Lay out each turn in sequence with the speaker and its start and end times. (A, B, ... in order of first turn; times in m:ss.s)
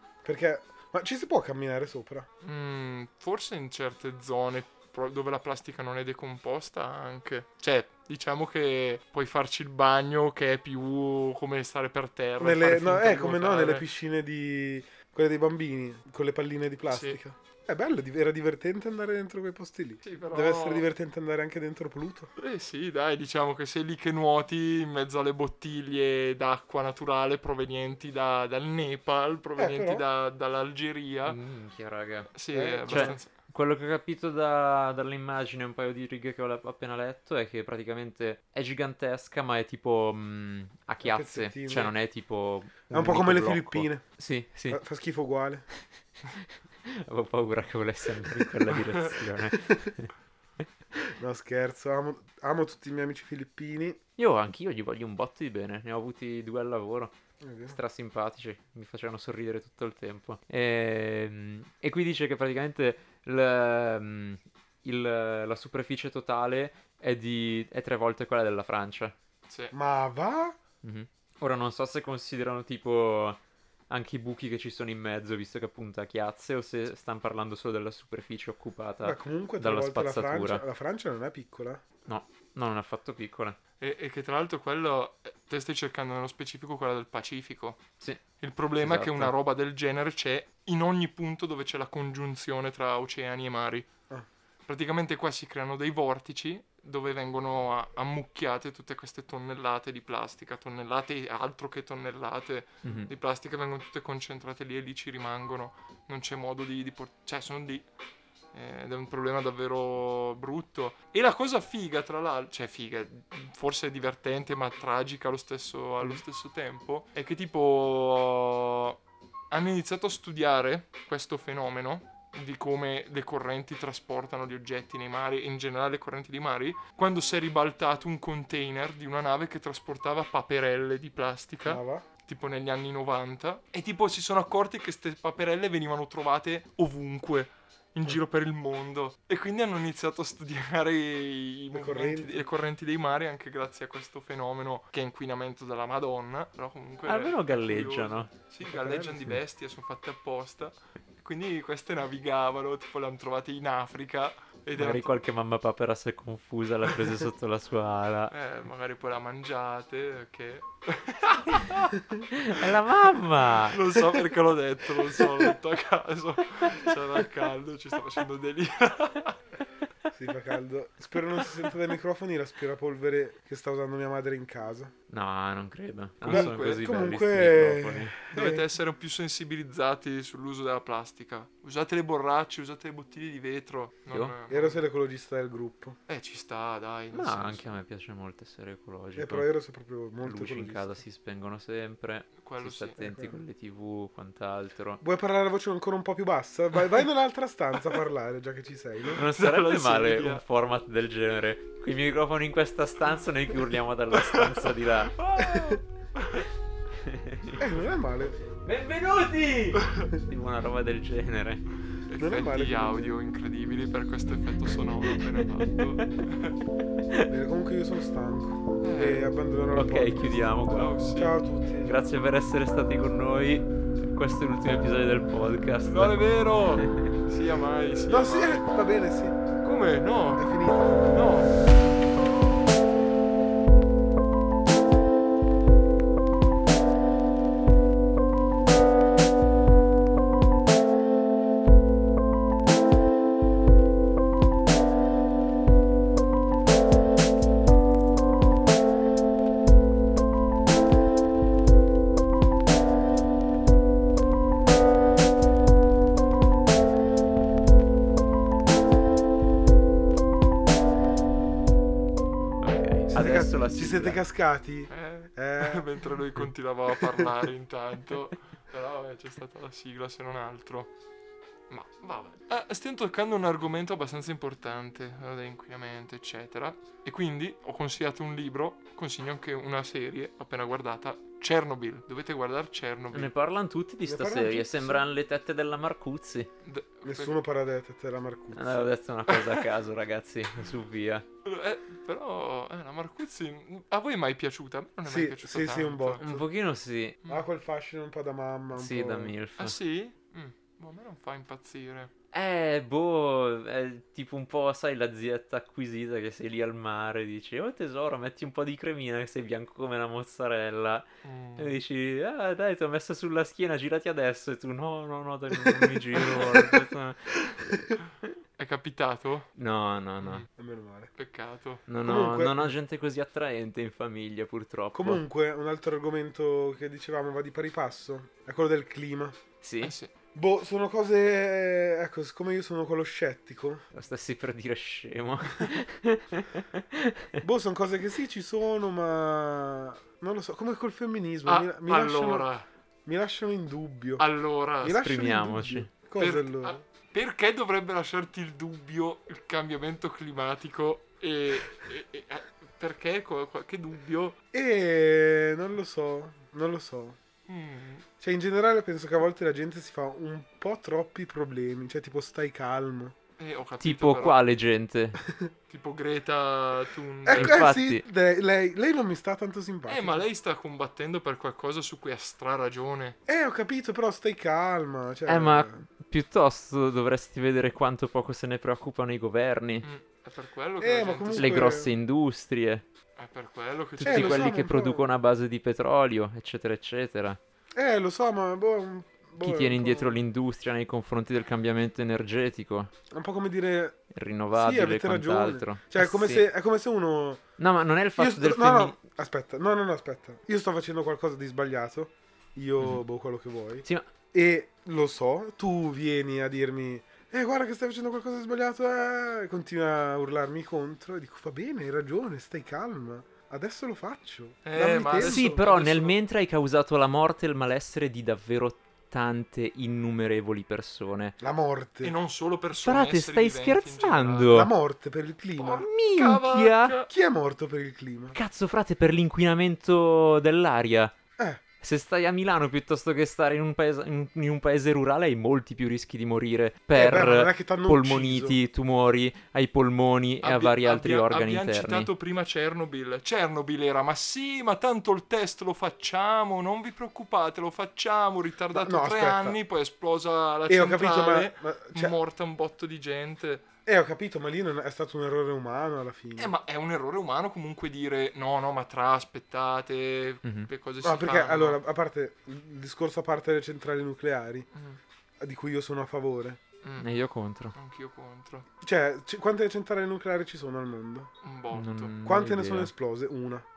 0:00.2-0:02.3 A
0:02.4-0:13.8 B
0:12.4-0:22.3 A
0:16.9-0:17.2 B
0:20.0-0:20.9 B
0:22.4-0:31.4 B
0:29.6-0:30.0 A
0:31.3-0:32.3 C
0:32.3-0:33.3 B
0:32.5-0:33.2 A
0:32.9-0:44.8 C
0:41.0-0:41.9 A
0:42.9-0:44.1 A
0:44.7-0:45.7 A
0:46.3-0:51.1 C
0:51.2-0:54.0 A
0:54.2-0:57.2 C
0:57.4-0:57.8 A
0:57.7-1:09.2 C
1:09.5-1:09.7 B
1:09.7-1:10.6 A
1:10.8-1:13.4 C
1:13.9-1:20.6 C
1:19.0-1:21.8 A
1:22.1-1:23.6 C
1:23.8-1:27.8 B
1:28.4-1:33.9 B
1:28.8-1:29.3 C
1:34.7-1:47.9 B
1:42.8-1:43.1 C
1:48.5-1:59.0 B
1:59.5-2:35.1 B
2:11.6-2:12.1 A
2:21.7-2:22.4 A
2:27.1-2:28.3 C
2:28.6-2:29.4 A
2:34.8-2:38.3 C
2:38.3-2:41.9 B
2:42.3-2:43.8 C
2:43.6-2:49.4 B
2:50.1-2:54.9 A
2:55.1-2:58.2 C
2:56.2-2:56.8 B
2:56.2-2:58.6 A
2:58.3-3:04.8 B
3:04.5-3:06.0 A
3:06.1-3:07.7 B
3:07.1-3:09.5 C
3:09.2-3:11.0 A
3:10.2-3:15.0 C
3:12.4-3:13.0 B
3:13.0-3:13.4 A
3:15.0-3:19.2 A
3:19.1-3:25.2 C
3:19.3-3:20.4 B
3:25.0-3:26.4 B
3:25.4-3:25.8 A
3:27.0-3:27.6 C
3:27.6-3:28.4 A
3:28.6-3:31.6 C
3:32.1-3:36.6 B
3:32.2-3:33.1 A
3:35.3-3:35.8 C
3:37.3-3:40.6 A
3:38.8-3:39.3 B
3:39.7-3:41.0 C
3:40.7-3:41.4 B
3:41.1-3:42.0 A
3:41.8-3:47.2 C
3:45.9-3:48.7 B
3:48.1-3:49.4 A
3:49.6-3:50.5 B
3:50.4-3:51.2 A
3:51.0-3:51.5 B
4:22.6-4:24.2 C
4:23.1-4:25.9 A
4:24.9-4:30.9 B
4:31.7-4:43.3 B
4:43.1-4:46.5 C
4:44.0-4:45.0 A
4:46.6-4:47.4 B
4:47.0-4:48.8 A
4:48.5-4:51.2 C
4:49.3-4:49.6 B
4:51.4-4:56.2 B
4:55.1-4:56.5 A
4:56.2-4:57.2 C
4:57.3-4:59.3 A
4:58.8-4:59.8 C
4:59.6-5:02.1 B
5:02.3-5:11.1 C
5:11.2-5:11.8 B
5:11.6-5:17.8 C
5:15.6-5:16.9 A
5:18.6-5:19.5 B
5:19.6-5:20.4 C
5:20.2-5:20.5 B
5:20.6-5:21.1 A
5:21.2-5:21.8 B
5:21.9-5:25.2 C
5:22.0-5:22.7 A
5:24.9-5:29.4 A
5:29.6-5:30.0 C
5:29.8-5:30.1 B
5:30.4-5:33.8 A
5:33.9-5:37.4 C
5:37.4-5:42.5 A
5:41.5-5:42.7 B
5:43.1-5:44.2 A
5:44.2-5:45.0 B
5:44.8-5:46.8 A
5:44.9-5:45.9 C
5:46.2-5:54.4 B
5:54.5-5:57.2 A
5:57.5-5:58.1 B
5:58.2-6:03.2 A
6:03.4-6:04.4 B
6:03.8-6:05.2 C
6:05.7-6:07.6 B
6:07.3-6:10.2 A
6:07.3-6:08.0 C
6:09.9-6:13.2 B
6:13.3-6:15.8 A
6:15.3-6:19.9 C
6:19.8-6:21.7 B
6:20.8-6:21.9 A
6:21.3-6:22.8 C
6:23.2-6:24.6 B
6:24.0-6:27.4 C
6:24.0-6:25.1 A
6:27.8-6:30.2 A
6:29.4-6:32.9 C
6:33.1-6:34.0 A
6:34.1-6:36.5 C
6:34.5-6:37.4 A
6:37.6-6:39.0 C
6:38.2-6:55.5 A
6:42.8-6:43.0 C
6:54.6-6:56.2 B
6:55.2-7:01.4 C
7:01.4-7:02.1 A
7:02.0-7:04.6 B
7:02.8-7:04.7 C
7:04.5-7:05.9 A
7:05.6-7:07.1 B
7:05.8-7:06.9 C
7:07.1-7:08.4 A
7:08.3-7:11.2 C
7:11.4-7:11.6 A
7:11.8-7:22.1 C
7:17.0-7:18.6 A
7:20.4-7:33.7 B
7:28.7-7:29.6 A
7:30.7-7:32.2 A
7:33.9-7:36.5 A
7:36.4-7:41.8 B
7:40.4-7:40.7 C
7:41.0-7:44.7 A
7:44.7-7:45.0 B
7:45.4-7:46.6 A
7:46.8-7:47.1 B
7:47.0-7:47.8 C
7:47.8-7:48.7 B
7:48.8-7:51.3 A
7:51.4-7:52.2 B
7:51.7-7:52.9 C
7:52.2-7:53.7 A